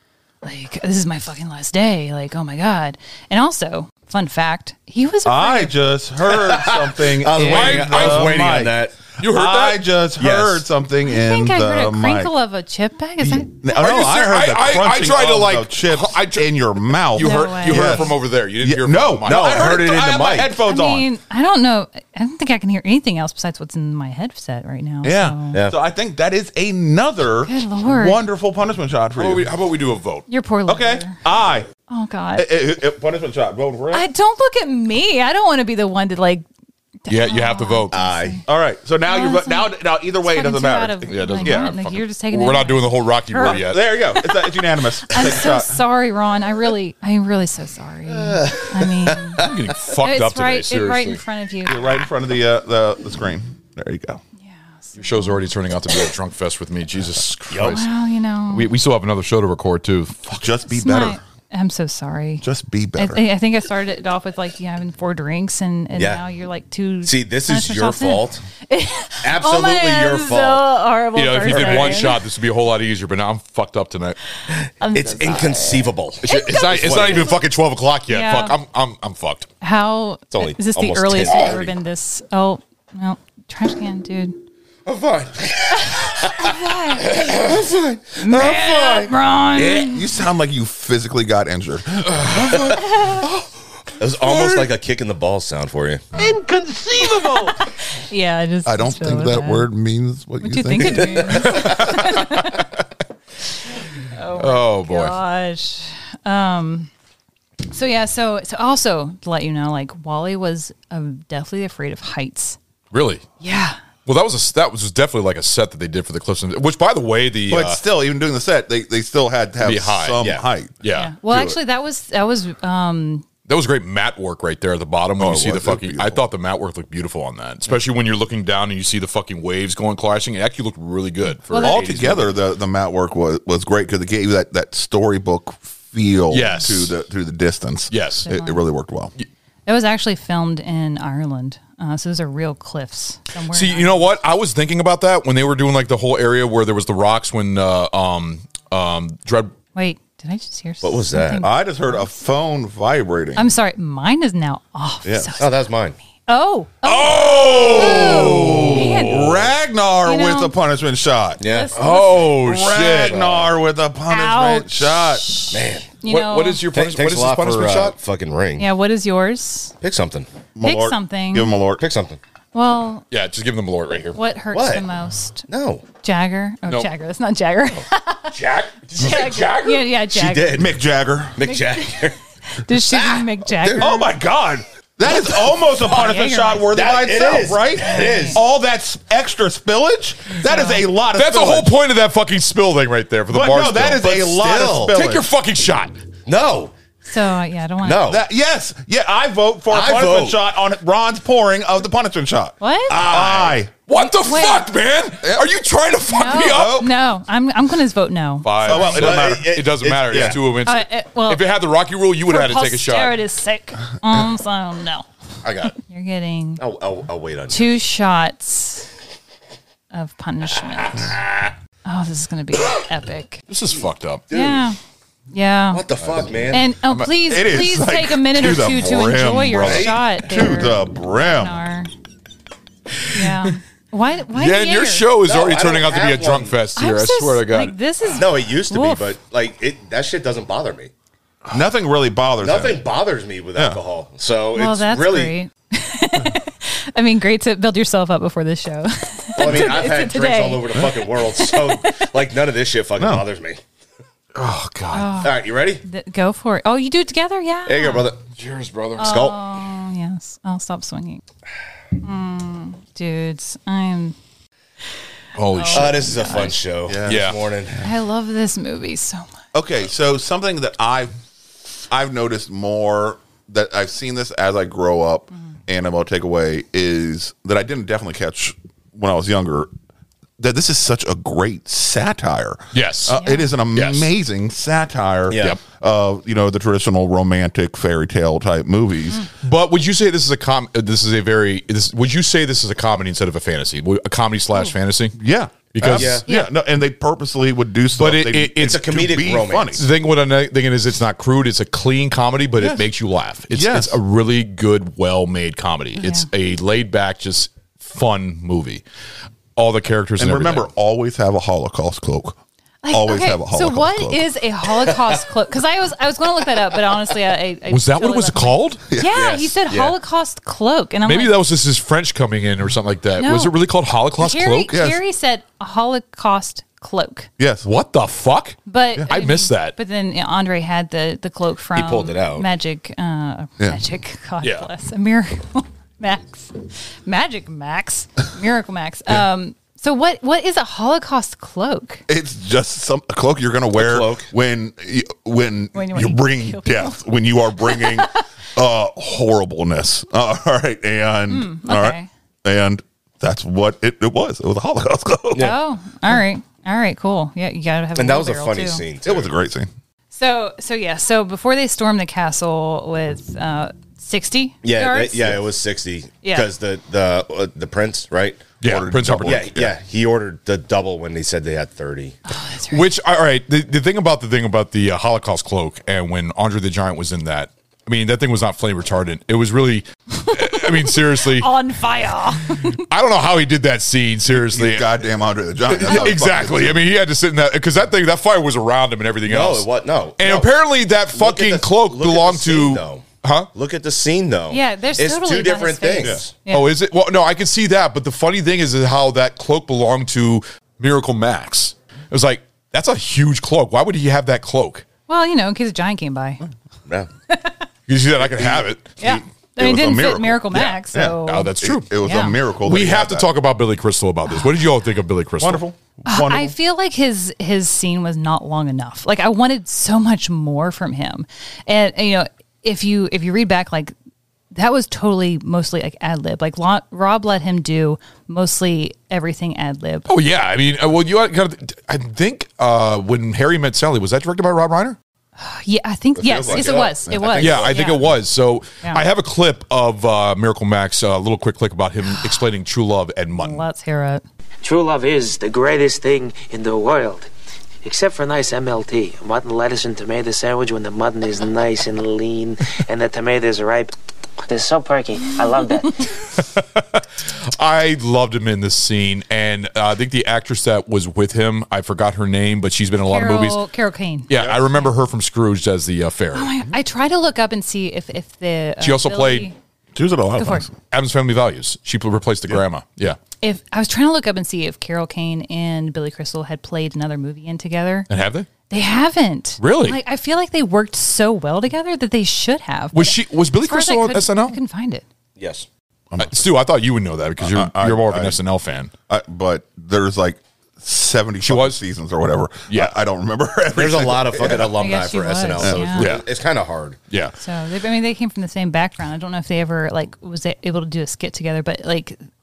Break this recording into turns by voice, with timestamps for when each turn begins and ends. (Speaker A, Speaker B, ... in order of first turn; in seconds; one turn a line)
Speaker A: 0.4-5.8
Speaker B: 5.2-12.3
Speaker C: 6.3-8.9
Speaker D: 7.3-8.6
Speaker D: 9.2-9.8
Speaker C: 10.2-10.7
Speaker A: 11.1-13.6
Speaker B: 13.2-21.1
Speaker D: 13.7-19.8
Speaker A: 17.2-18.1
Speaker C: 19.3-20.5
Speaker A: 20.6-25.6
Speaker B: 25.0-29.5
Speaker A: 27.4-28.2
Speaker D: 29.2-30.3
Speaker A: 30.3-31.2
Speaker B: 30.7-31.7
Speaker A: 31.9-32.5
Speaker B: 32.4-34.1
Speaker A: 33.9-36.5
Speaker A: 37.1-38.4
Speaker D: 37.1-38.0
Speaker C: 37.9-38.4
Speaker B: 38.5-41.7
Speaker A: 39.1-44.5
Speaker D: 41.1-43.9
Speaker B: 43.4-45.7
Speaker A: 45.0-51.9
Speaker C: 48.1-49.5
Speaker D: 49.4-51.2
Speaker B: 51.6-54.2
Speaker A: 54.4-55.4
Speaker D: 55.0-57.9
Speaker C: 57.5-57.8
Speaker A: 57.7-58.7
Speaker D: 58.5-60.4
Speaker B: 60.3-61.2
Speaker A: 60.7-62.4
Speaker B: 62.4-63.2
Speaker A: 63.0-72.2
Speaker C: 66.0-66.2
Speaker C: 67.0-68.4
Speaker C: 69.2-70.7
Speaker D: 71.2-74.2
Speaker C: 71.5-72.1
Speaker A: 74.8-77.1
Speaker C: 74.9-77.3
Speaker D: 76.2-79.5
Speaker A: 78.1-78.6
Speaker A: 79.6-84.3
Speaker C: 80.3-81.7
Speaker C: 84.9-90.0
Speaker A: 85.8-87.2
Speaker A: 88.2-90.0
Speaker B: 89.9-93.1
Speaker C: 92.5-92.8
Speaker A: 92.8-93.2
Speaker C: 94.0-96.0
Speaker A: 97.4-99.7
Speaker B: 98.7-101.8
Speaker A: 100.4-102.7
Speaker D: 101.5-102.5
Speaker A: 104.1-106.9
Speaker D: 104.4-105.2
Speaker A: 107.7-112.6
Speaker D: 112.9-113.3
Speaker A: 113.4-113.8
Speaker D: 114.1-117.8
Speaker B: 117.5-121.6
Speaker D: 119.6-120.3
Speaker D: 120.8-121.1
Speaker A: 120.9-123.2
Speaker D: 123.5-132.3
Speaker B: 125.2-126.2
Speaker A: 131.5-131.8
Speaker B: 131.6-139.1
Speaker D: 136.3-136.9
Speaker D: 137.9-138.3
Speaker A: 138.2-138.6
Speaker A: 139.7-144.1
Speaker D: 143.5-149.5
Speaker A: 149.8-152.0
Speaker C: 150.8-151.5
Speaker B: 151.4-153.5
Speaker A: 153.4-155.6
Speaker C: 155.1-156.0
Speaker A: 156.3-159.2
Speaker D: 156.8-159.3
Speaker B: 157.1-165.3
Speaker A: 160.1-160.6
Speaker C: 161.4-161.7
Speaker A: 161.4-162.3
Speaker D: 161.8-163.5
Speaker A: 164.1-166.7
Speaker C: 165.5-165.9
Speaker D: 166.1-168.0
Speaker C: 166.7-168.7
Speaker A: 168.6-169.8
Speaker C: 169.8-170.3
Speaker B: 170.6-171.8
Speaker A: 170.6-171.6
Speaker C: 171.8-172.2
Speaker A: 172.5-173.1
Speaker D: 173.1-174.2
Speaker A: 174.2-175.5
Speaker C: 174.5-174.8
Speaker C: 175.5-175.8
Speaker A: 176.0-178.4
Speaker D: 178.3-179.9
Speaker A: 179.0-180.7
Speaker C: 180.0-180.8
Speaker B: 180.5-181.5
Speaker C: 181.3-182.2
Speaker A: 181.4-184.1
Speaker C: 182.7-183.9
Speaker B: 183.7-191.8
Speaker A: 185.6-186.7
Speaker C: 186.7-188.4
Speaker A: 187.8-188.4
Speaker A: 190.3-190.9
Speaker D: 191.2-196.0
Speaker B: 193.3-195.3
Speaker C: 194.3-194.7
Speaker C: 196.3-196.7
Speaker A: 197.1-198.1
Speaker C: 197.8-198.2
Speaker B: 198.1-203.7
Speaker C: 199.7-200.4
Speaker A: 202.6-203.0
Speaker C: 202.9-203.6
Speaker D: 203.9-206.9
Speaker A: 204.2-204.7
Speaker B: 205.2-205.5
Speaker A: 206.1-208.8
Speaker B: 206.4-206.9
Speaker D: 208.4-213.2
Speaker B: 208.6-210.4
Speaker C: 208.7-210.4
Speaker A: 210.7-211.5
Speaker A: 212.2-215.1
Speaker D: 215.4-215.7
Speaker A: 215.8-216.6
Speaker C: 216.6-217.8
Speaker A: 217.5-218.9
Speaker A: 219.9-221.2
Speaker C: 220.9-221.5
Speaker A: 221.8-223.4
Speaker D: 223.5-224.3
Speaker C: 224.3-224.7
Speaker A: 224.3-224.8
Speaker A: 225.3-225.8
Speaker C: 225.7-226.7
Speaker A: 226.5-231.9
Speaker B: 227.1-231.6
Speaker A: 233.1-235.1
Speaker D: 233.2-233.5
Speaker D: 234.3-237.8
Speaker C: 235.2-236.5
Speaker A: 236.8-239.1
Speaker C: 238.1-240.9
Speaker B: 241.5-242.8
Speaker C: 242.4-245.4
Speaker B: 243.6-243.8
Speaker A: 244.6-252.1
Speaker C: 249.4-253.6
Speaker B: 253.0-253.2
Speaker D: 254.4-255.2
Speaker A: 254.9-258.1
Speaker C: 255.2-255.8
Speaker C: 257.7-258.2
Speaker D: 258.4-259.2
Speaker A: 259.0-261.2
Speaker C: 259.0-259.4
Speaker A: 262.0-264.2
Speaker D: 265.4-266.5
Speaker A: 265.5-266.6
Speaker C: 265.7-267.9
Speaker B: 266.9-267.8
Speaker D: 267.1-267.4
Speaker A: 267.8-269.3
Speaker B: 269.5-271.1
Speaker B: 271.7-279.7
Speaker B: 280.4-289.3
Speaker D: 282.7-283.2
Speaker A: 283.2-283.5
Speaker D: 283.7-284.1
Speaker C: 285.3-285.6
Speaker D: 289.4-295.2
Speaker B: 295.2-299.9
Speaker D: 295.7-296.2
Speaker C: 295.9-296.2
Speaker A: 296.3-296.5
Speaker D: 298.0-298.9
Speaker C: 298.6-299.8
Speaker D: 299.7-308.8
Speaker B: 302.6-302.9
Speaker B: 303.5-304.0
Speaker A: 306.0-306.3
Speaker D: 309.6-310.7
Speaker B: 310.2-312.4
Speaker A: 312.8-321.4
Speaker B: 312.9-314.2
Speaker D: 317.7-318.8
Speaker B: 318.9-319.2
Speaker C: 319.1-320.0
Speaker D: 321.1-324.7
Speaker A: 323.2-323.6
Speaker A: 324.2-327.3
Speaker B: 324.7-325.0
Speaker B: 327.4-327.7
Speaker D: 327.6-329.8
Speaker A: 328.7-342.0
Speaker C: 331.8-332.5
Speaker D: 334.4-334.7
Speaker B: 342.1-355.6
Speaker C: 343.7-344.3
Speaker A: 345.7-347.0
Speaker A: 347.6-348.2
Speaker A: 351.3-352.1
Speaker A: 355.4-358.8
Speaker C: 357.9-359.3
Speaker B: 359.0-359.7
Speaker A: 360.1-365.4
Speaker C: 364.6-368.5
Speaker A: 366.2-366.5
Speaker D: 368.6-369.5
Speaker B: 368.6-369.8
Speaker C: 369.3-372.2
Speaker A: 372.3-372.9
Speaker D: 372.7-381.5
Speaker A: 380.3-382.8
Speaker D: 382.6-384.9
Speaker B: 384.3-386.9
Speaker D: 385.6-393.5
Speaker C: 389.2-390.5
Speaker C: 391.1-396.3
Speaker A: 394.5-396.8
Speaker D: 396.5-404.9
Speaker A: 405.1-406.4
Speaker D: 407.9-408.9
Speaker B: 408.4-413.3
Speaker A: 409.0-412.4
Speaker D: 410.5-411.9
Speaker D: 412.6-415.6
Speaker B: 415.4-416.5
Speaker A: 416.1-423.9
Speaker A: 424.5-430.1
Speaker D: 430.1-435.0
Speaker A: 435.4-438.0
Speaker C: 436.2-437.9
Speaker B: 436.5-437.3
Speaker D: 437.4-443.6
Speaker A: 442.1-442.4
Speaker A: 443.4-444.2
Speaker E: 444.6-447.3
Speaker E: 447.8-453.9
Speaker E: 454.5-456.1
Speaker D: 456.3-463.6
Speaker A: 463.1-464.3
Speaker D: 464.3-466.5
Speaker B: 464.4-464.6
Speaker A: 466.3-469.6
Speaker D: 468.8-469.5
Speaker B: 469.9-470.8
Speaker A: 470.4-470.7
Speaker D: 470.9-473.2
Speaker A: 473.4-478.1
Speaker D: 478.1-478.5
Speaker A: 478.7-485.1
Speaker D: 479.6-480.0
Speaker D: 482.9-484.6
Speaker C: 485.4-485.7
Speaker B: 486.1-486.4
Speaker D: 486.2-488.9
Speaker B: 487.4-488.4
Speaker B: 489.1-494.8
Speaker D: 491.4-491.8
Speaker D: 492.7-493.0
Speaker C: 493.7-497.0
Speaker A: 494.8-496.1
Speaker B: 495.6-496.0
Speaker D: 496.0-496.2
Speaker D: 497.1-497.4
Speaker A: 497.4-502.2